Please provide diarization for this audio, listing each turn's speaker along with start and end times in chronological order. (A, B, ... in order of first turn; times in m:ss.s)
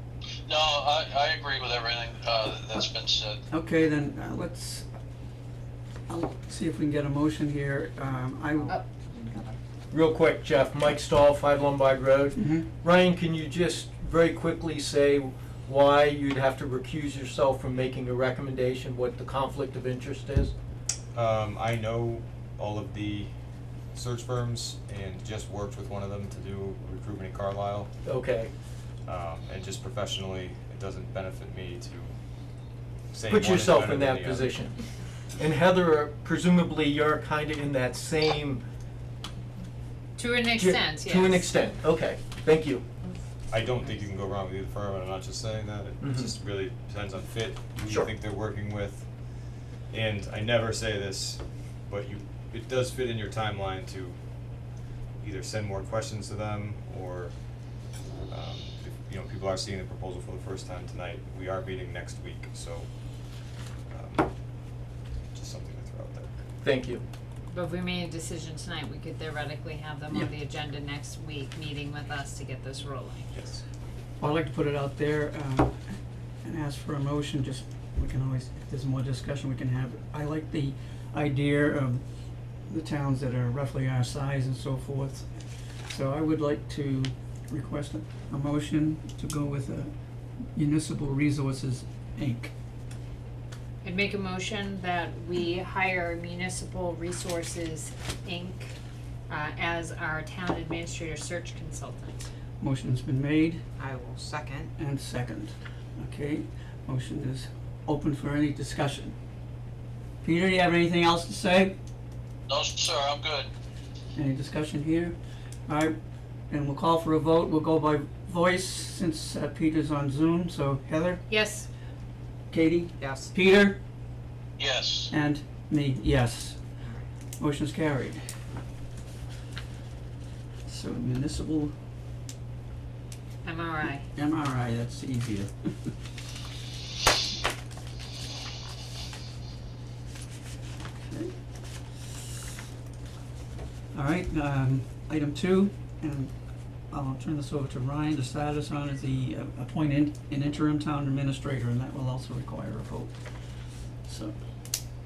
0:00.5-0:03.4 A
0:03.5-0:04.9 B
0:06.1-0:08.7 B
0:08.5-0:09.6 C
0:09.9-0:20.5 D
0:12.4-0:12.6 B
0:21.1-0:23.3 E
0:23.9-0:27.9 E
0:28.0-0:28.5 D
0:29.0-0:32.1 E
0:33.1-0:34.5 E
0:33.3-0:34.8 D
0:35.4-0:38.6 D
0:40.2-0:41.5 F
0:40.6-0:42.8 D
0:43.5-0:49.1 E
0:46.0-0:46.3 D
0:49.9-0:54.2 E
0:55.2-0:57.4 E
0:58.3-1:02.9 E
1:03.9-1:04.3 E
1:05.3-1:06.3 E
1:06.6-1:07.0 D
1:07.5-1:13.3 F
1:13.3-1:13.6 E
1:14.2-1:15.8 B
1:16.4-1:22.0 B
1:22.7-1:25.2 B
1:25.9-1:29.9 B
1:30.6-1:32.5 B
1:33.8-1:38.7 F
1:39.3-1:42.3 F
1:42.6-1:43.6 B
1:43.8-1:44.7 C
1:44.8-1:49.1 B
1:50.2-1:51.7 B
1:52.5-1:53.5 A
1:54.1-1:55.2 B
1:55.7-1:56.0 B
1:56.5-2:01.2 B
2:01.3-2:01.7 F
2:02.5-2:03.8 B
2:03.0-2:03.3 C
2:04.6-2:05.1 A
2:05.1-2:06.6 B
2:06.8-2:07.1 C
2:07.4-2:08.2 B
2:10.6-2:11.7 B
2:13.4-2:14.0 F
2:14.1-2:15.9 B
2:21.0-2:21.3 B
2:23.9-2:26.3 B
2:26.9-2:33.1 B
2:34.0-2:34.4 B